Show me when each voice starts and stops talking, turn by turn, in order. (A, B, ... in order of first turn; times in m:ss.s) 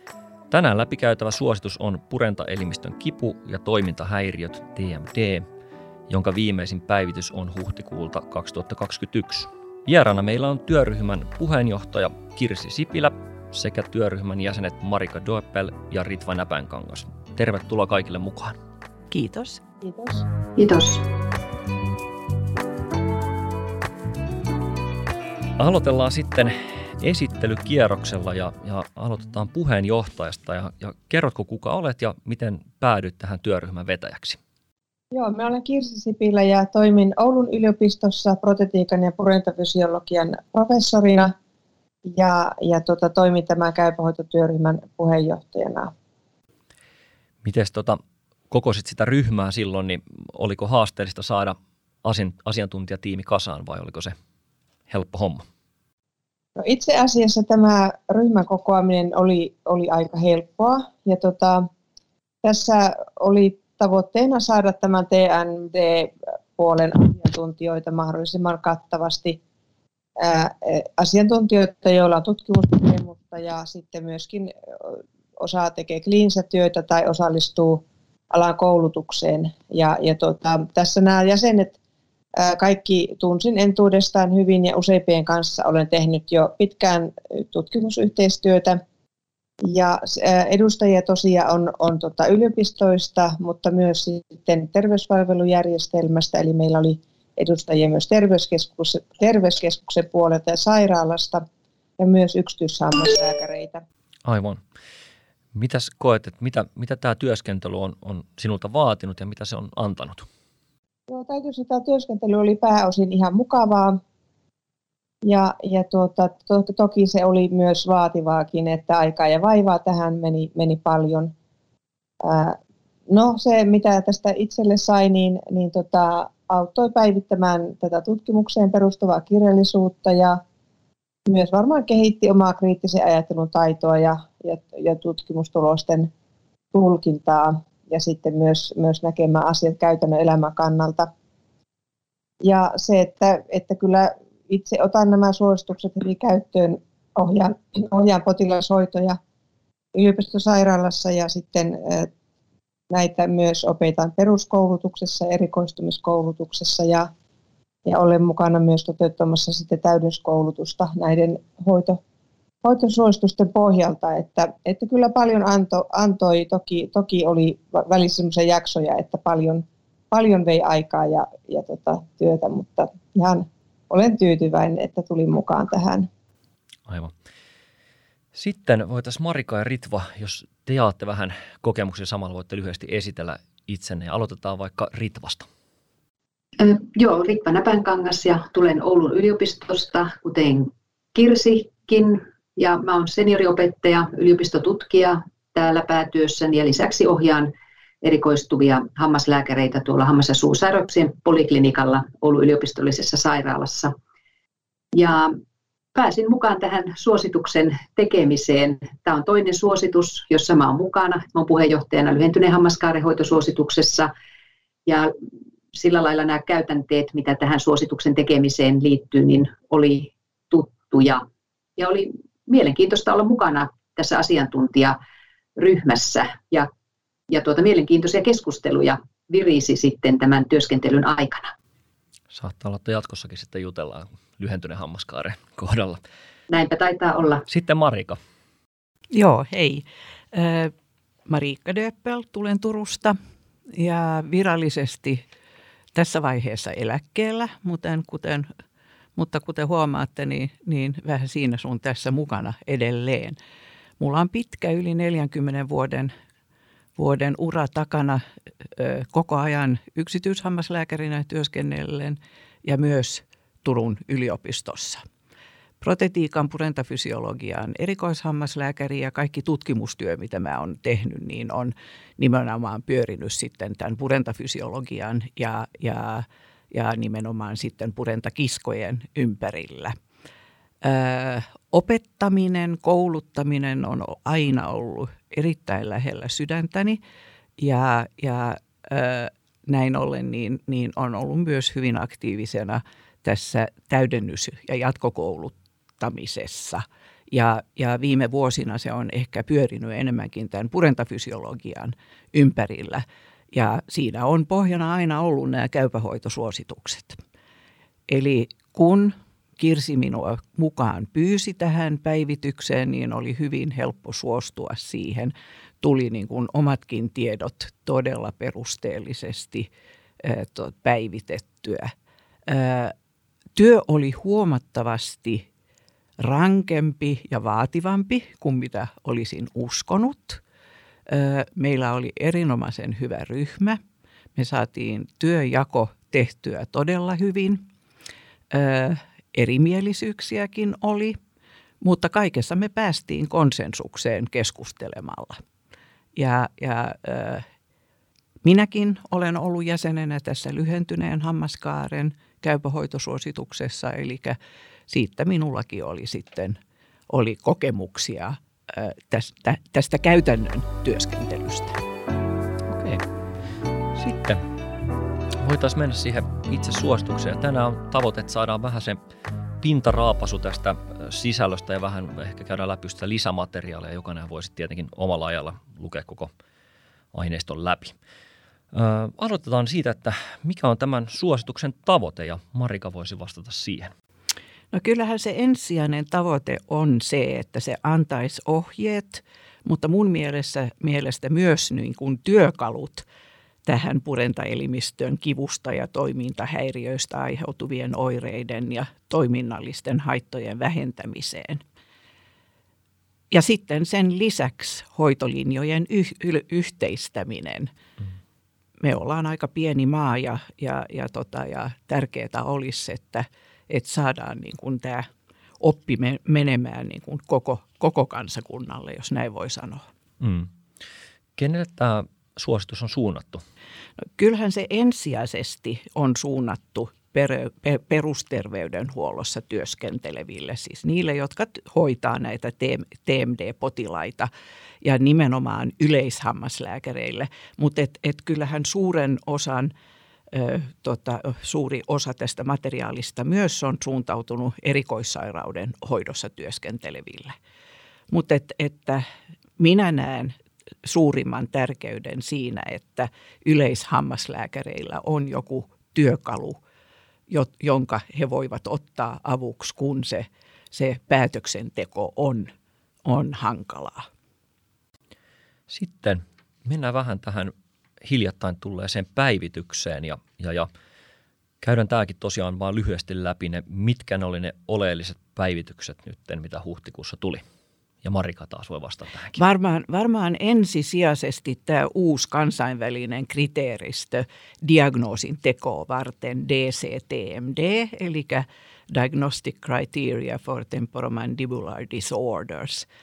0:00.5-0:05.5 A
0:06.1-0:18.6 A
0:19.1-0:19.6 B
0:19.8-0:20.2 C
0:20.6-0:21.0 D
0:25.6-0:34.4 A
0:35.1-0:41.3 C
0:42.1-0:45.9 C
0:47.4-0:54.2 A
0:54.9-0:55.4 A
0:56.6-1:01.7 C
1:02.4-1:09.4 C
1:10.2-1:21.8 C
1:22.4-1:28.8 C
1:29.6-1:41.4 C
1:42.0-1:43.8 C
1:44.3-1:44.6 A
1:45.5-1:50.3 A
1:51.1-1:54.0 C
1:55.2-2:01.3 C
2:02.2-2:02.6 C
2:03.1-2:10.4 C
2:11.3-2:16.1 C
2:16.7-2:21.1 C
2:22.4-2:29.2 C
2:29.9-2:32.1 C
2:32.9-2:37.1 C
2:37.9-2:42.0 C
2:42.6-2:56.1 C
2:56.9-2:57.1 A
2:58.3-3:05.5 A
3:06.6-3:17.5 D
3:18.0-3:23.9 D
3:24.9-3:25.4 D
3:26.0-3:34.1 D
3:34.9-3:35.1 D
3:35.7-3:41.2 D
3:41.8-3:45.0 D
3:45.6-3:46.7 D
3:47.3-3:51.5 D
3:52.3-3:56.0 A
3:56.5-3:57.4 D
3:57.5-3:58.2 A
3:59.1-4:00.7 B
4:01.3-4:03.2 B
4:03.8-4:05.2 B
4:06.0-4:08.5 B
4:09.2-4:13.4 B
4:14.0-4:16.1 B
4:17.0-4:18.2 B
4:18.8-4:25.0 B
4:25.8-4:40.0 B
4:40.8-4:47.0 B
4:47.6-5:07.2 B
5:08.1-5:19.7 B
5:20.2-5:21.9 B
5:22.5-5:22.9 B
5:23.6-5:25.5 B
5:26.2-5:30.4 B
5:31.1-5:33.8 B
5:34.4-5:37.7 B
5:38.5-5:41.2 B
5:41.8-5:45.4 B
5:46.2-5:47.4 B
5:48.4-5:54.4 B
5:54.9-5:56.6 B
5:57.1-6:01.8 B
6:02.7-6:03.0 A
6:04.0-6:04.4 A
6:05.4-6:09.0 A
6:09.6-6:16.3 A
6:17.1-6:18.0 A
6:18.7-6:23.9 A
6:24.7-6:33.0 B
6:33.6-6:41.6 B
6:43.3-6:47.7 B
6:48.8-6:55.1 B
6:55.6-6:59.9 B
7:00.2-7:00.5 A
7:01.4-7:03.4 A
7:04.0-7:14.3 B
7:14.8-7:19.7 B
7:20.3-7:27.4 B
7:28.1-7:29.0 B
7:29.6-7:36.6 B
7:37.3-7:42.5 B
7:43.0-7:44.1 B
7:45.7-7:50.7 A
7:51.6-7:57.4 A
7:58.0-7:59.4 A
7:59.4-8:12.9 B